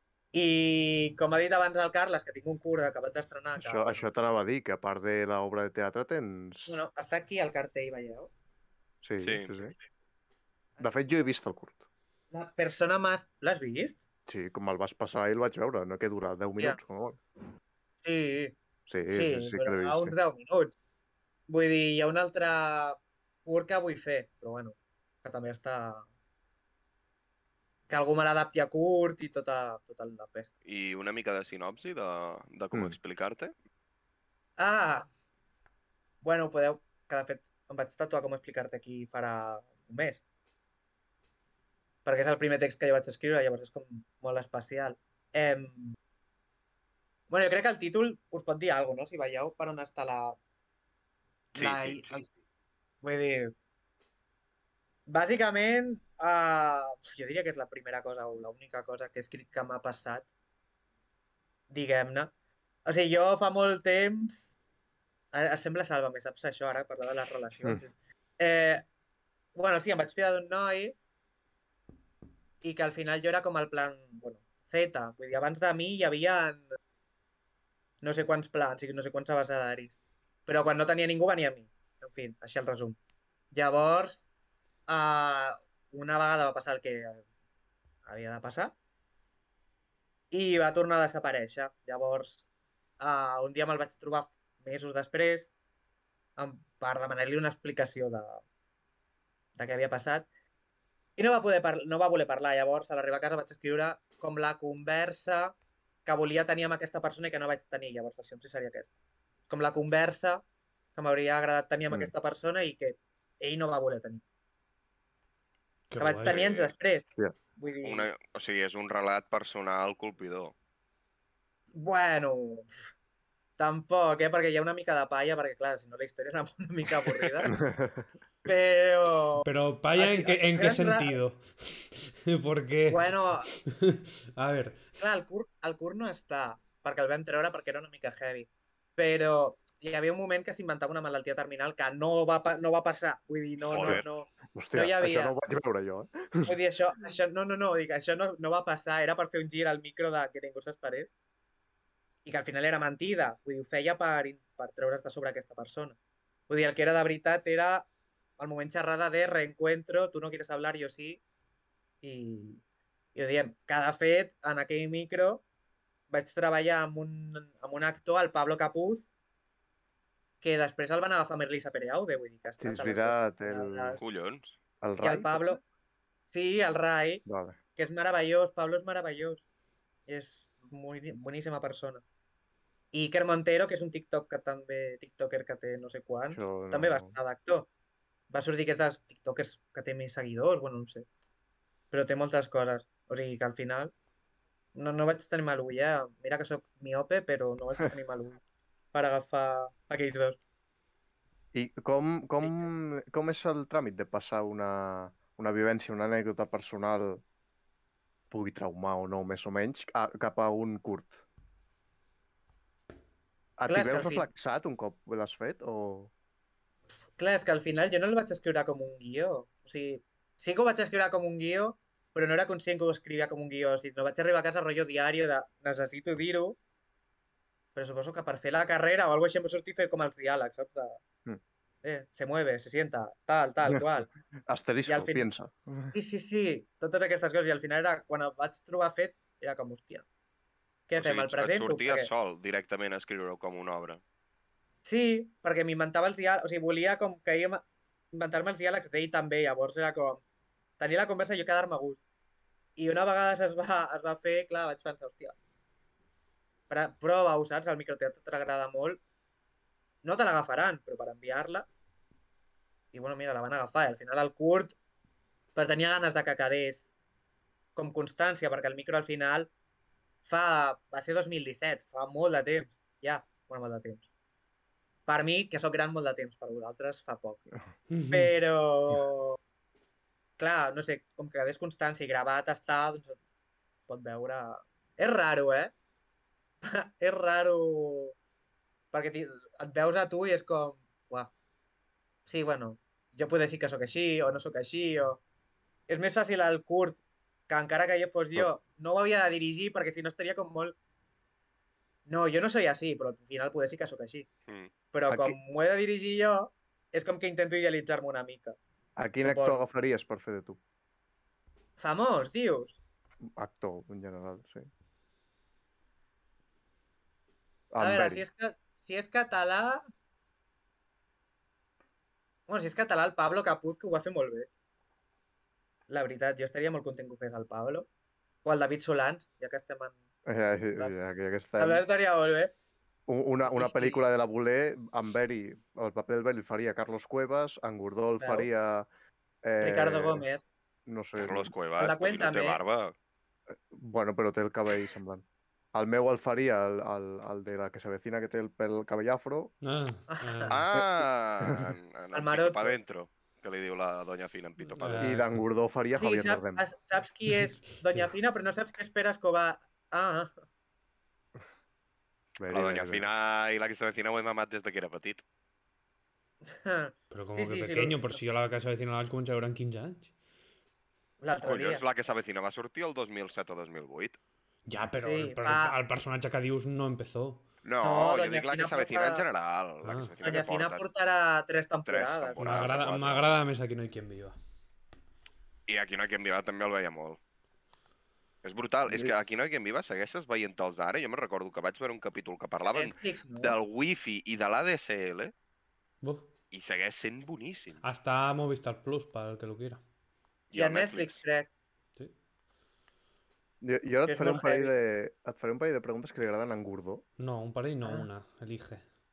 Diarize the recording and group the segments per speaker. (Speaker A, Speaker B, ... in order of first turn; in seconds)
Speaker A: 0.3-4.0, 6.7-8.3, 12.3-14.0, 18.0-18.6, 19.1-20.8, 21.5-26.1, 27.9-30.5, 34.6-35.1, 36.2-40.2, 42.0-46.0, 47.3-50.4, 51.5-52.3, 53.0-53.5, 55.1-60.3, 61.7-62.3, 62.9-64.6, 65.3-68.8, 69.5-71.0, 72.6-76.7, 78.0-80.0, 80.5-83.0, 83.5-84.3, 84.9-87.2, 88.1-88.7, 90.3-92.5, 93.0-95.5, 96.4-98.4, 99.6-100.3, 101.2-108.9, 109.5-110.4, 111.0-114.2, 116.0-118.1, 121.8-122.7, 123.6-127.6, 128.4-131.2, 132.9-133.5, 135.0-145.4, 146.4-151.1, 152.2-156.0, 156.5-157.9, 158.4-161.2, 162.0-162.6, 163.2-165.4, 166.1-169.1, 170.4-174.0, 175.0-175.6, 176.3-177.2, 177.8-179.4, 180.1-182.0, 182.9-187.7, 188.3-191.1, 191.9-193.9, 194.8-198.4, 198.9-200.4, 202.4-202.7, 213.7-214.3, 217.2-226.6, 227.8-231.0, 231.8-234.1, 234.9-235.3, 235.9-240.1, 240.9-242.1, 244.8-250.2, 250.8-252.0, 252.8-255.3, 256.7-259.0, 260.0-261.7, 262.9-264.8, 265.6-266.9, 267.8-269.5, 270.2-274.1, 275.1-277.4, 278.1-279.4, 280.4-283.2, 283.9-285.7, 286.6-288.1, 288.9-291.3, 292.3-295.2, 295.9-300.8, 302.1-304.3, 304.9-308.6, 309.2-309.6, 311.8-312.8, 317.8-319.8, 322.5-324.5, 325.9-327.9, 328.4-329.9, 331.6-332.5, 333.4-334.0, 338.2-338.5, 339.6-340.4, 341.8-342.6, 350.1-350.5, 352.1-352.8, 356.0-360.3, 366.5-368.2, 371.2-371.8, 375.0-375.8, 377.8-379.2, 380.2-382.6, 392.7-393.5, 400.6-401.5, 404.1-404.7
Speaker B: 3.6-6.8, 9.0-9.7, 10.8-11.8, 14.3-17.2, 18.9-20.1, 127.5-128.1, 143.8-146.6, 172.6-174.0, 174.8-175.6, 177.2-177.6, 186.3-187.2, 201.5-207.2, 208.3-211.2, 213.6-216.1, 234.5-235.9, 305.1-305.4, 309.0-310.6, 313.4-314.7, 317.7-318.2, 330.3-331.8, 333.1-338.9, 339.4-340.2, 340.9-341.5, 343.5-349.5, 350.7-351.7, 355.0-356.6, 362.4-363.1, 388.9-389.1, 403.6-407.0
Speaker C: 9.2-9.5, 30.6-33.5, 51.5-52.1, 116.2-116.7, 117.8-120.5, 143.7-144.0, 174.0-174.6, 241.0-244.0, 341.2-342.9, 350.5-355.1, 362.5-365.2, 371.4-374.2, 377.6-380.8, 381.9-383.3, 385.7-387.2, 388.4-395.3, 396.5-397.8, 400.5-401.2
Speaker D: 115.9-116.4, 129.4-134.9, 277.9-278.3, 349.6-350.6, 354.6-355.4, 357.3-358.1, 367.1-370.1, 374.7-377.4, 379.8-380.1, 382.4-384.4, 396.0-396.3, 397.8-399.8, 407.2-408.8